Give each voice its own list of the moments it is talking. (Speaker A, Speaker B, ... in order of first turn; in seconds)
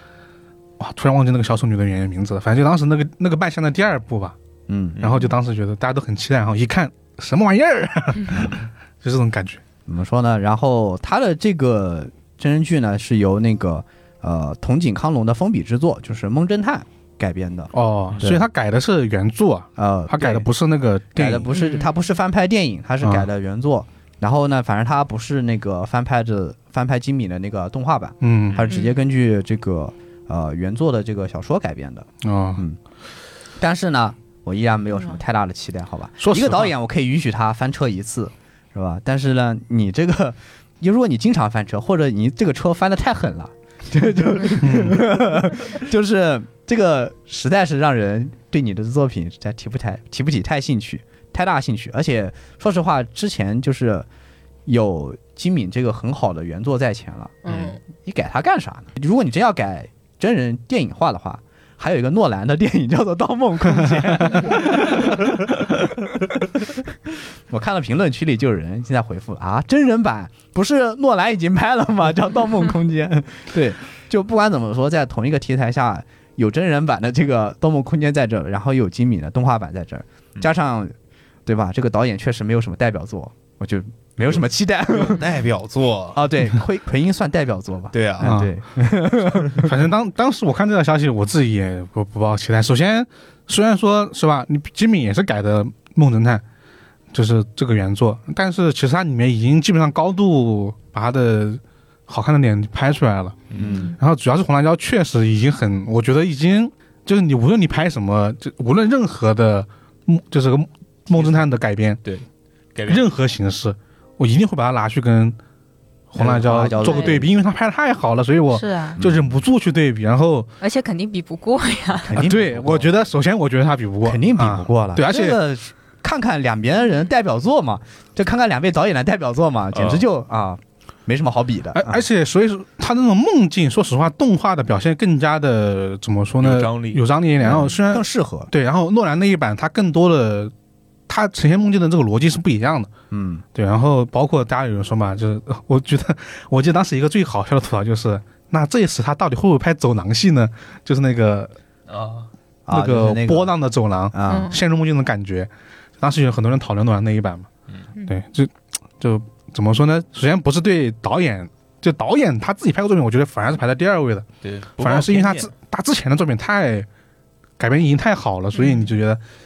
Speaker A: 0.8-4.4, 5.0-9.6, 17.7-21.5, 23.0-23.3, 28.2-28.7, 32.2-32.6, 36.2-36.7, 44.6-45.0, 88.2-88.5, 89.5-96.4, 97.1-112.0, 112.9-115.4, 116.1-120.5, 122.2-125.4, 131.7-140.5, 141.1-142.9, 143.5-151.5, 152.7-157.5, 158.1-164.3, 164.8-166.9, 167.6-169.2
Speaker B: 4.7-5.0, 9.9-18.4, 19.8-20.5, 21.1-32.8, 33.6-54.1, 54.7-65.8, 67.5-80.9, 81.5-85.2, 86.2-89.7, 103.6-104.0, 116.2-117.3, 119.0-119.3, 122.1-122.9, 124.0-132.0, 137.4-138.5, 143.1-143.4, 152.7-153.5, 154.1-154.6
Speaker C: 5.0-5.3, 57.5-57.7, 84.3-86.2, 87.9-88.4, 103.5-103.9, 111.1-111.5, 112.0-113.0, 129.7-130.1, 136.4-137.0, 151.9-152.3, 164.4-165.5
Speaker D: 21.5-22.0, 28.7-29.0, 57.5-57.8, 116.8-117.2, 118.5-119.0, 120.6-122.2, 154.3-154.6, 168.6-168.9